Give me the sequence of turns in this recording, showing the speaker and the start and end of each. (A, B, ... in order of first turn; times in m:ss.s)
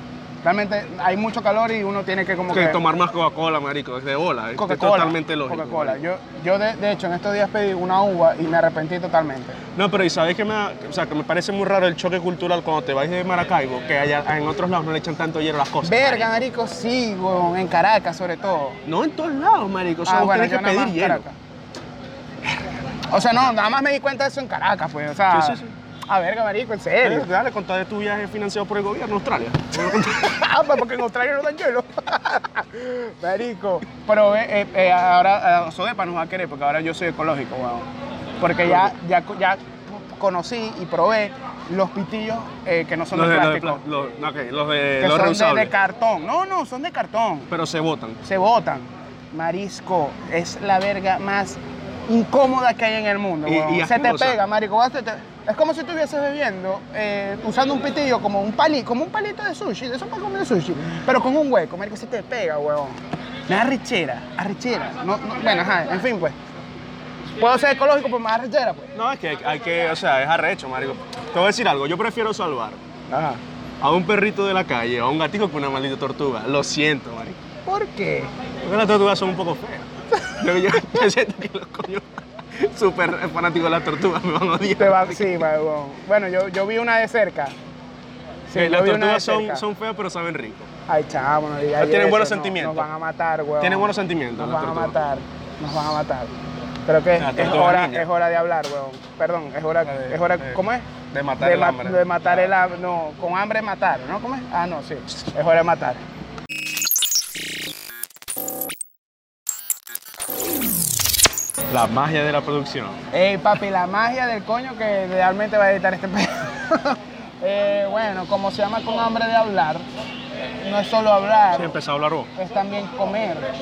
0:00.4-0:02.8 A
0:02.5-0:06.0 B
0:04.6-0:09.6 A
0:09.7-0:16.3 B
0:15.8-0:18.8 A
0:18.8-0:21.2 B
0:20.0-0:21.4 A
0:23.1-0:27.3 A
0:25.3-0:25.7 B
0:27.0-0:30.4 B
0:30.0-0:37.9 A
0:38.4-0:43.8 A
0:38.6-0:38.9 B
0:43.1-0:45.7 B
0:45.0-0:47.5 A
0:47.5-0:48.2 B
0:48.2-1:06.4 A
0:53.4-0:54.4 B
1:07.4-1:08.9 A
1:08.9-1:12.8 B
1:13.1-1:13.4 A
1:13.8-1:17.4 B
1:17.6-1:18.3 A
1:18.6-1:25.4 B
1:20.2-1:21.0 A
1:24.8-1:27.5 A
1:28.5-1:29.6 A
1:28.5-1:30.7 B
1:30.9-1:36.3 A
1:31.8-1:32.9 B
1:33.6-1:34.9 B
1:36.8-1:40.9 A
1:37.2-1:38.1 B
1:39.8-1:40.6 B
1:41.1-1:42.5 B
1:41.4-1:46.0 A
1:51.7-1:53.0 B
1:53.1-1:59.8 A
2:00.6-2:01.7 A
2:01.5-2:02.3 B
2:02.4-2:03.5 A